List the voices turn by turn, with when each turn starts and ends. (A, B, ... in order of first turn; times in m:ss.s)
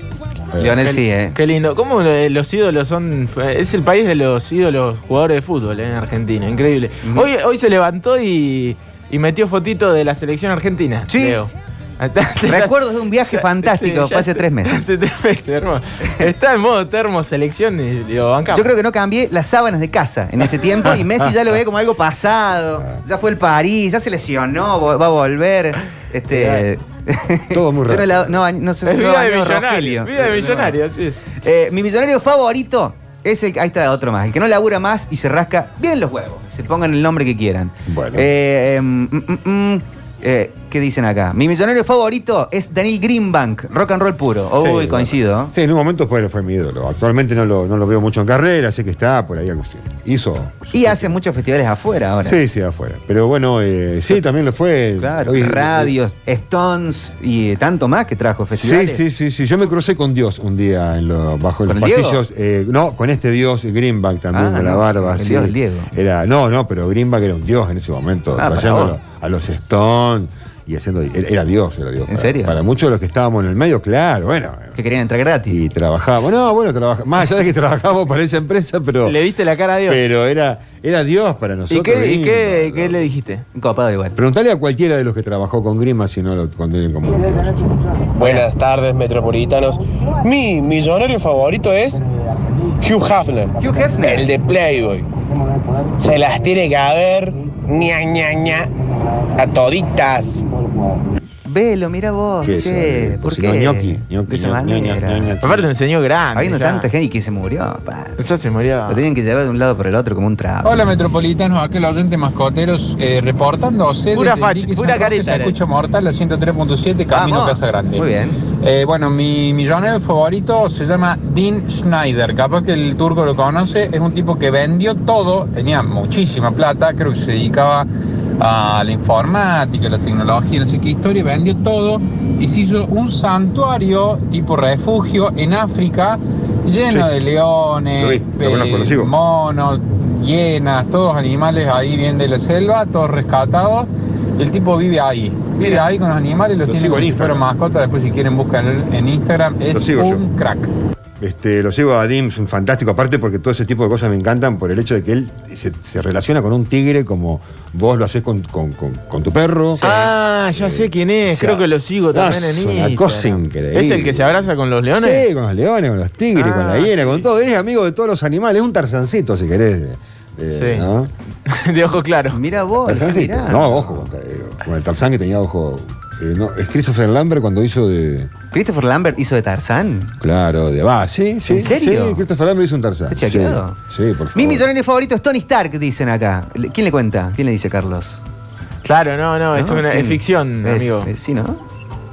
0:00.5-0:00.8 A
0:00.6-0:01.4 B
0:00.8-0:18.7 C
0:11.1-0:11.4 B
0:12.5-0:14.8 B
0:18.5-0:30.7 B
0:26.3-0:26.6 C
0:27.5-0:28.4 A
0:28.8-0:31.2 C
0:31.4-0:45.5 B
0:37.9-0:38.3 A
0:44.6-0:51.2 A
0:50.7-0:52.4 B
0:52.2-0:55.9 A
0:55.0-0:59.0 B
0:58.5-1:14.8 A
1:01.7-1:02.2 B
1:04.3-1:05.9 B
1:08.4-1:09.0 B
1:12.1-1:12.6 B
1:14.8-1:15.6 B
1:15.5-1:19.2 A
1:19.0-1:20.1 C
1:19.9-1:23.0 A
1:21.7-1:23.4 C
1:23.6-1:24.2 B
1:24.2-1:27.7 A
1:28.2-1:32.0 D
1:28.2-1:28.5 B
1:32.8-1:35.0 D
1:33.6-1:34.3 B
1:36.0-1:38.7 D
1:39.4-1:40.4 D
1:41.4-1:45.3 B
1:42.4-1:45.7 A
1:45.4-1:46.9 C
1:46.4-1:48.2 B
1:48.2-1:49.0 C
1:48.9-1:50.7 B
1:50.6-1:58.1 E
1:54.1-1:55.6 C
1:57.1-1:58.4 B
1:58.6-2:07.9 E
2:08.4-2:30.7 E
2:16.9-2:17.1 A
2:18.0-2:19.1 A
2:25.6-2:25.8 A
2:26.6-2:27.5 A
2:29.7-2:30.2 A
2:31.2-2:39.8 A
2:39.8-2:40.1 B
2:39.8-2:45.3 C
2:40.6-2:51.1 A
2:46.4-2:47.2 C
2:50.5-2:50.9 C
2:51.5-2:52.4 C
2:52.3-2:54.0 B
2:52.8-2:58.3 A
2:58.5-3:00.2 B
3:00.2-3:04.7 A
3:01.5-3:02.2 B
3:03.1-3:03.8 B
3:04.4-3:08.2 B
3:08.8-3:11.1 C
3:09.5-3:11.6 B